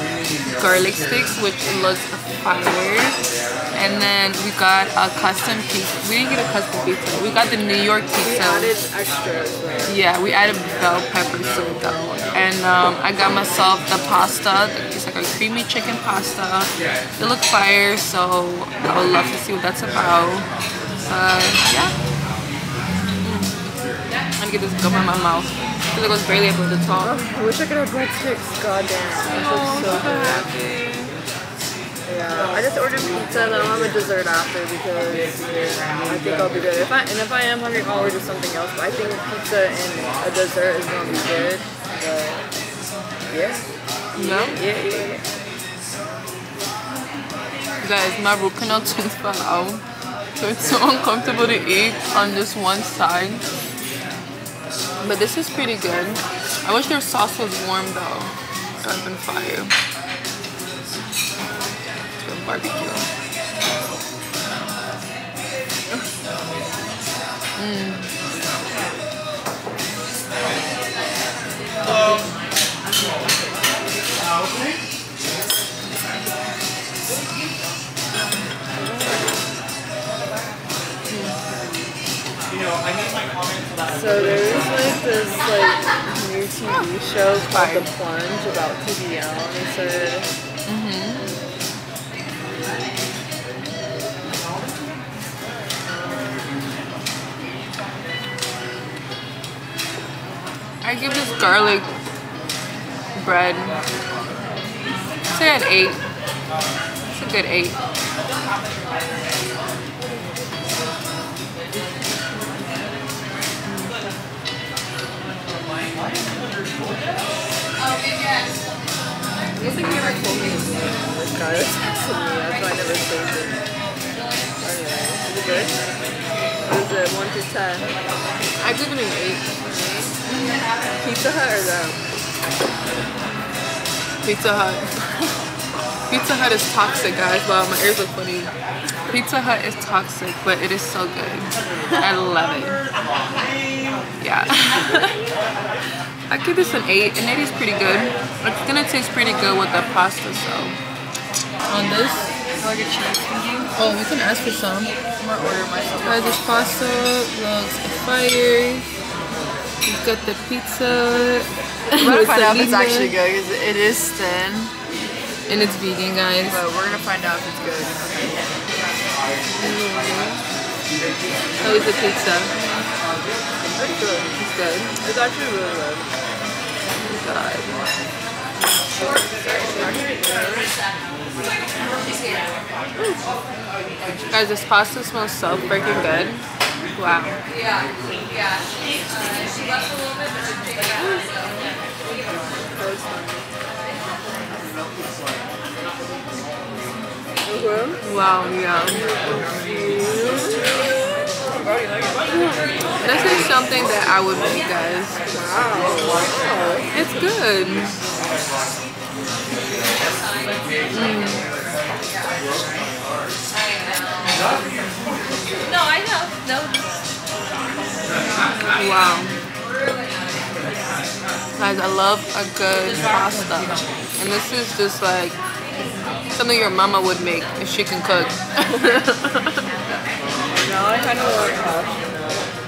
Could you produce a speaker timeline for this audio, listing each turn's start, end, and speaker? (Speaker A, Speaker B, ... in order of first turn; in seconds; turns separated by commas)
Speaker A: 0.5-8.7, Speaker B: 8.2-10.0, Speaker A: 9.9-20.5, Speaker A: 21.1-21.9, Speaker A: 23.2-23.8, Speaker A: 24.4-27.2, Speaker B: 27.0-30.5, Speaker A: 29.3-31.1, Speaker B: 32.0-42.4, Speaker B: 43.3-45.2, Speaker A: 44.1-44.6, Speaker A: 47.8-49.8, Speaker A: 50.3-53.4, Speaker A: 55.0-59.7, Speaker A: 62.2-63.1, Speaker A: 67.6-68.1, Speaker B: 78.8-79.2, Speaker A: 81.1-81.3, Speaker B: 83.9-90.3, Speaker A: 87.4-87.9, Speaker A: 90.7-91.3, Speaker A: 100.8-101.9, Speaker A: 103.2-103.8, Speaker A: 105.3-106.0, Speaker A: 107.0-107.8, Speaker A: 113.7-114.0, Speaker B: 119.6-123.6, Speaker B: 124.6-125.7, Speaker B: 126.6-127.9, Speaker A: 128.6-129.5, Speaker B: 129.6-130.1, Speaker A: 130.3-130.6, Speaker B: 131.0-132.0, Speaker A: 134.2-134.9, Speaker A: 136.1-138.5, Speaker A: 139.1-142.8, Speaker A: 144.2-145.2, Speaker A: 146.3-150.8, Speaker A: 151.7-152.3, Speaker B: 152.6-153.7, Speaker A: 153.8-154.9, Speaker B: 155.2-157.1, Speaker A: 156.0-158.8, Speaker A: 159.8-163.1, Speaker B: 162.0-164.7, Speaker A: 165.5-166.6, Speaker B: 166.4-168.6, Speaker A: 169.6-170.4, Speaker A: 171.6-172.5, Speaker B: 173.6-174.3, Speaker A: 174.4-174.9, Speaker B: 175.0-176.1, Speaker A: 177.0-177.8, Speaker B: 179.1-180.7, Speaker B: 182.9-183.2, Speaker A: 184.3-186.4, Speaker A: 186.9-187.4, Speaker B: 192.7-193.5, Speaker B: 197.4-198.0, Speaker A: 198.0-199.0, Speaker B: 198.9-203.4, Speaker A: 203.0-205.2, Speaker B: 205.3-206.9, Speaker A: 206.9-207.9, Speaker A: 210.9-211.4, Speaker A: 218.7-219.4, Speaker A: 221.6-225.4, Speaker A: 226.3-229.6, Speaker B: 230.6-232.5